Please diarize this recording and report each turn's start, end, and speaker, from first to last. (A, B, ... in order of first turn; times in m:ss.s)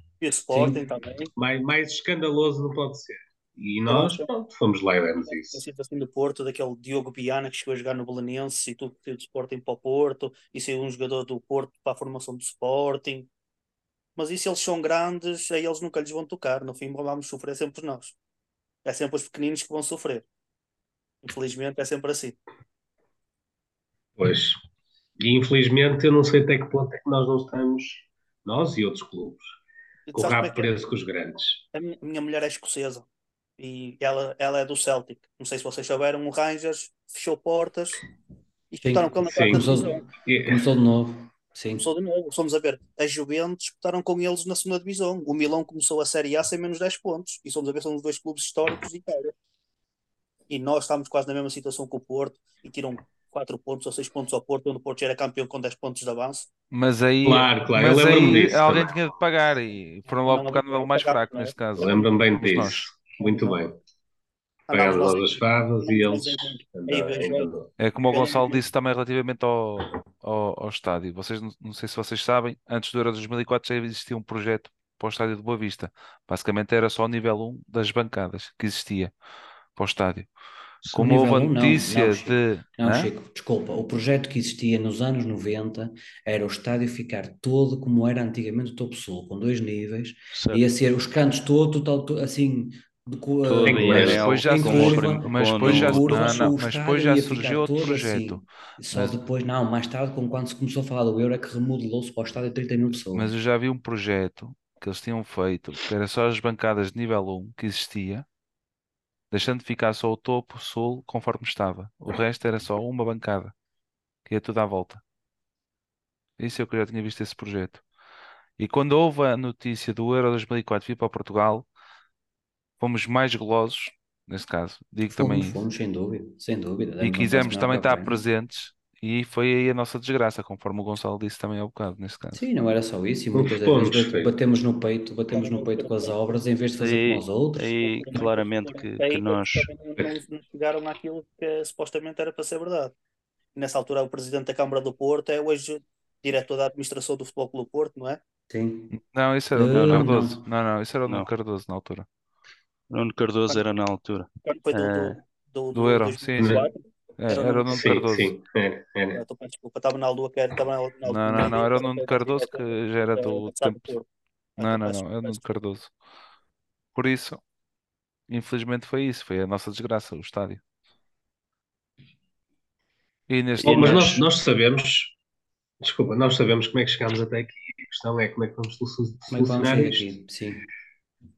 0:00.2-0:01.3 A
0:00.5-0:00.8 B
0:01.4-0:05.7 C
0:03.9-0:04.3 A
0:05.3-0:13.3 A
0:14.2-0:18.2 A
0:18.8-0:20.3 A
0:21.2-0:22.4 A
0:24.2-0:24.6 C
0:25.2-0:29.6 C
0:30.1-0:30.7 A
0:30.1-0:31.6 C
0:31.7-0:33.1 A
0:33.6-0:38.0 A
0:38.7-0:40.1 A
0:38.8-0:41.9 B
0:39.2-0:40.7 C
0:41.8-0:49.3 A
0:50.5-0:56.5 A
0:56.7-1:03.0 D
0:57.2-0:59.2 C
1:00.3-1:01.5 A
1:01.8-1:03.8 C
1:03.2-1:03.6 A
1:04.7-1:08.6 A
1:04.7-1:08.4 C
1:07.8-1:19.1 D
1:19.8-1:20.3 D
1:20.9-1:23.1 D
1:20.9-1:43.3 B
1:30.3-1:30.6 E
1:33.6-1:39.2 D
1:33.6-1:36.6 E
1:33.6-1:34.4 C
1:43.1-1:48.3 D
1:49.3-1:53.5 D
1:54.3-1:55.0 D
1:56.4-1:57.8 D
1:58.6-2:01.7 D
2:02.8-2:05.6 D
2:05.1-2:08.2 B
2:07.0-2:12.4 D
2:12.3-2:17.7 B
2:13.3-2:14.3 C
2:15.3-2:16.4 A
2:16.8-2:19.8 E
2:17.8-2:22.9 A
2:23.6-2:28.2 A
2:28.5-2:29.0 B
2:28.9-2:32.1 D
2:29.6-2:30.4 B
2:32.9-2:35.2 E
2:34.4-2:37.8 A
2:35.7-2:36.7 D
2:36.4-2:36.7 C
2:37.2-2:38.3 D
2:37.4-2:37.6 B
2:37.7-2:39.2 C
2:39.1-2:44.1 A
2:41.0-2:43.9 D
2:44.6-2:45.4 A
2:44.6-2:45.9 D
2:47.0-2:47.4 D
2:48.3-2:50.6 D
2:53.3-2:54.2 D
2:53.6-2:55.2 C
2:53.6-2:54.1 B
2:55.8-3:00.2 C
2:59.3-3:00.6 B